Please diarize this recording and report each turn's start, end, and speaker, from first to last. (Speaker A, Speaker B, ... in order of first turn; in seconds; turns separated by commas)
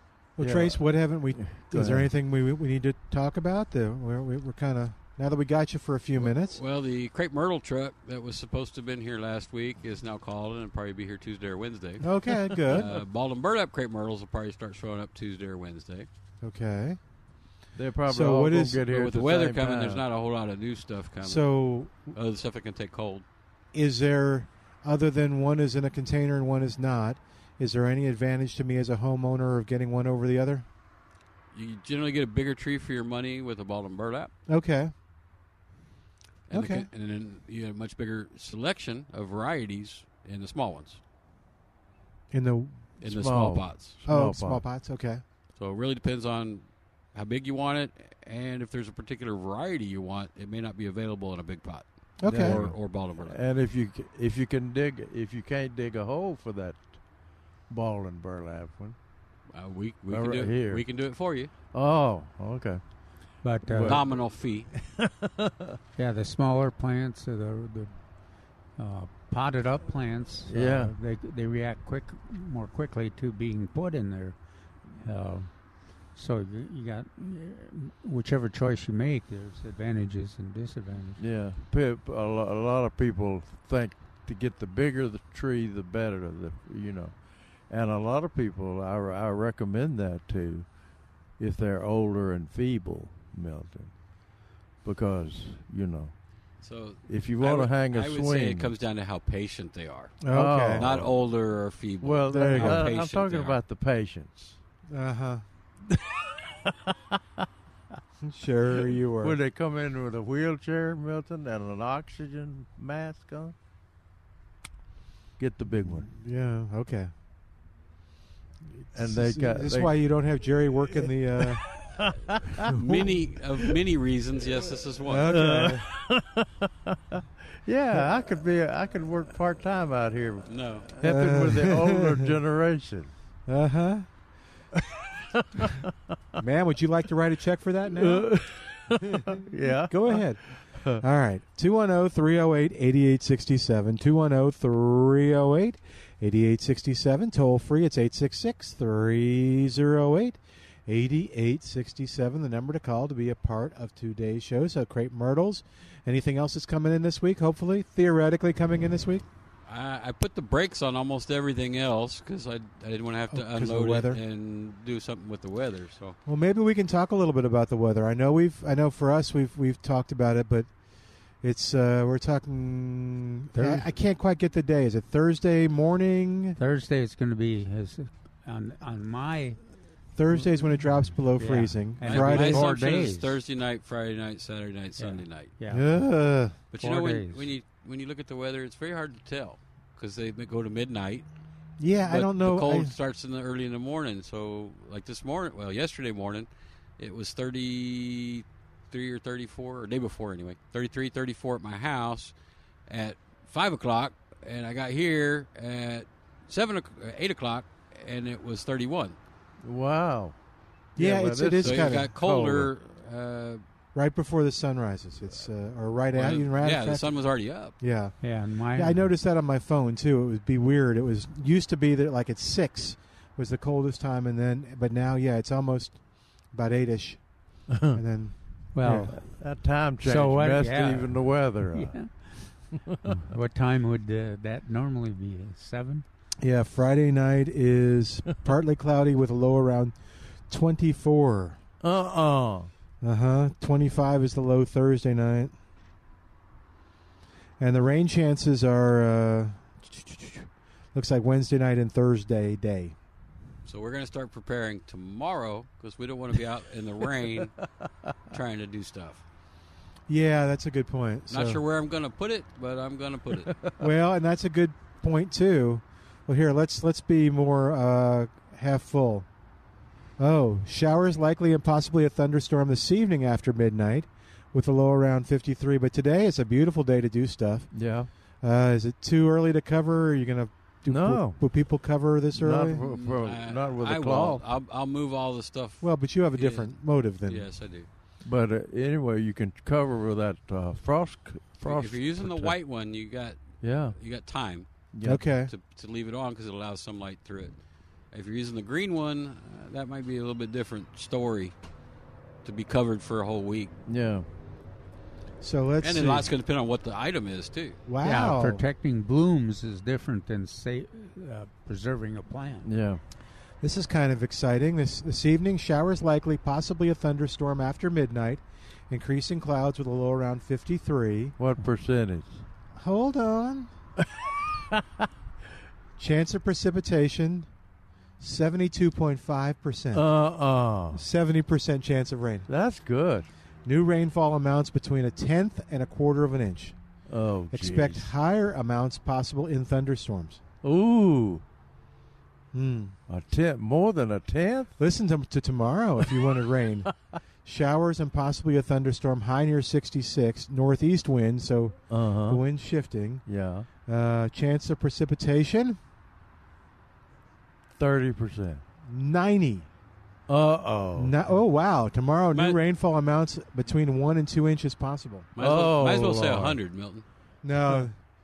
Speaker A: 0.4-6.6, Speaker B: 0.4-2.1, Speaker C: 6.2-16.1, Speaker A: 12.0-12.9, Speaker A: 16.4-17.0, Speaker B: 17.7-20.0, Speaker A: 18.1-18.9, Speaker C: 18.9-23.2, Speaker A: 21.2-21.9, Speaker A: 23.7-30.6, Speaker C: 31.5-34.3, Speaker A: 34.5-34.9, Speaker C: 36.5-41.0, Speaker A: 36.5-36.9, Speaker A: 42.3-42.9, Speaker C: 43.0-44.0, Speaker B: 43.0-44.6, Speaker A: 44.0-45.2, Speaker C: 45.5-53.4, Speaker A: 52.2-52.6, Speaker B: 52.2-59.0, Speaker C: 59.5-61.5, Speaker B: 60.1-60.8, Speaker B: 61.7-62.8, Speaker D: 63.4-64.0, Speaker B: 63.7-65.8, Speaker C: 63.8-64.7, Speaker D: 66.0-68.0, Speaker D: 68.7-81.2, Speaker B: 70.5-70.9, Speaker B: 81.2-96.2, Speaker C: 96.6-103.6, Speaker B: 97.1-98.7, Speaker A: 100.2-100.9, Speaker B: 100.3-101.2, Speaker B: 102.0-104.6, Speaker A: 102.3-102.9, Speaker A: 104.9-105.4, Speaker B: 105.9-107.4, Speaker A: 108.2-109.4, Speaker B: 109.2-113.5, Speaker B: 115.4-116.1, Speaker A: 115.7-117.1, Speaker A: 118.8-121.8, Speaker B: 118.9-120.1, Speaker B: 121.4-122.6, Speaker A: 122.6-123.2, Speaker C: 122.7-125.3, Speaker A: 125.1-125.9, Speaker B: 125.3-133.1, Speaker C: 130.4-130.9, Speaker A: 131.0-132.3, Speaker A: 133.5-134.1, Speaker B: 135.4-135.9, Speaker A: 136.4-138.4, Speaker B: 137.9-141.0, Speaker A: 139.1-159.2, Speaker C: 159.7-166.2, Speaker A: 163.3-164.2, Speaker A: 166.2-170.7, Speaker A: 171.4-176.6, Speaker D: 173.5-173.9, Speaker D: 176.6-179.6, Speaker A: 180.2-182.7, Speaker D: 181.2-183.3, Speaker C: 182.1-185.5, Speaker D: 185.0-187.5, Speaker A: 185.7-186.5, Speaker C: 186.7-191.3, Speaker A: 191.8-192.9, Speaker C: 192.0-202.3, Speaker C: 202.9-209.2, Speaker B: 209.6-210.3, Speaker B: 210.9-212.1, Speaker A: 210.9-212.7, Speaker C: 211.6-213.6, Speaker A: 213.9-229.1, Speaker C: 216.1-217.7, Speaker D: 218.2-219.1, Speaker B: 227.7-228.0, Speaker D: 228.7-236.0, Speaker B: 228.8-232.0, Speaker B: 232.9-233.2, Speaker A: 236.4-239.9, Speaker A: 240.5-241.6, Speaker B: 241.8-242.7, Speaker A: 243.0-245.5, Speaker A: 247.6-252.9, Speaker C: 253.6-257.6, Speaker C: 258.3-259.2, Speaker A: 260.1-261.6, Speaker C: 261.3-263.6, Speaker A: 263.8-269.3, Speaker A: 270.2-282.8, Speaker B: 277.7-278.1, Speaker B: 280.9-281.4, Speaker B: 282.3-284.4, Speaker C: 282.8-287.9, Speaker A: 285.8-287.4, Speaker B: 288.2-292.6, Speaker C: 291.6-294.7, Speaker B: 293.6-294.0, Speaker B: 294.9-295.2, Speaker A: 295.0-295.5, Speaker C: 295.4-297.6, Speaker C: 298.1-301.5, Speaker C: 302.4-303.7, Speaker B: 303.9-304.3, Speaker A: 305.4-306.3, Speaker C: 305.8-307.8, Speaker A: 307.9-308.6, Speaker D: 308.0-312.7, Speaker B: 312.6-313.0, Speaker A: 313.6-321.4, Speaker B: 321.4-322.4, Speaker A: 322.8-323.7, Speaker B: 324.7-325.0, Speaker A: 326.0-327.5, Speaker A: 328.2-330.1, Speaker B: 329.9-331.0, Speaker A: 330.9-332.5, Speaker B: 332.5-333.3, Speaker A: 333.6-336.8, Speaker B: 337.1-338.1, Speaker A: 337.5-340.4, Speaker B: 340.6-341.4, Speaker A: 342.5-343.0, Speaker B: 343.1-344.7, Speaker A: 344.8-346.9, Speaker A: 347.4-353.2, Speaker B: 351.9-352.4, Speaker B: 353.2-353.7, Speaker A: 353.9-355.8, Speaker B: 357.8-358.6, Speaker A: 358.9-359.7, Speaker B: 360.3-361.3, Speaker A: 360.9-365.3, Speaker C: 362.3-362.6, Speaker C: 365.4-367.0, Speaker B: 365.4-366.6, Speaker A: 367.4-368.0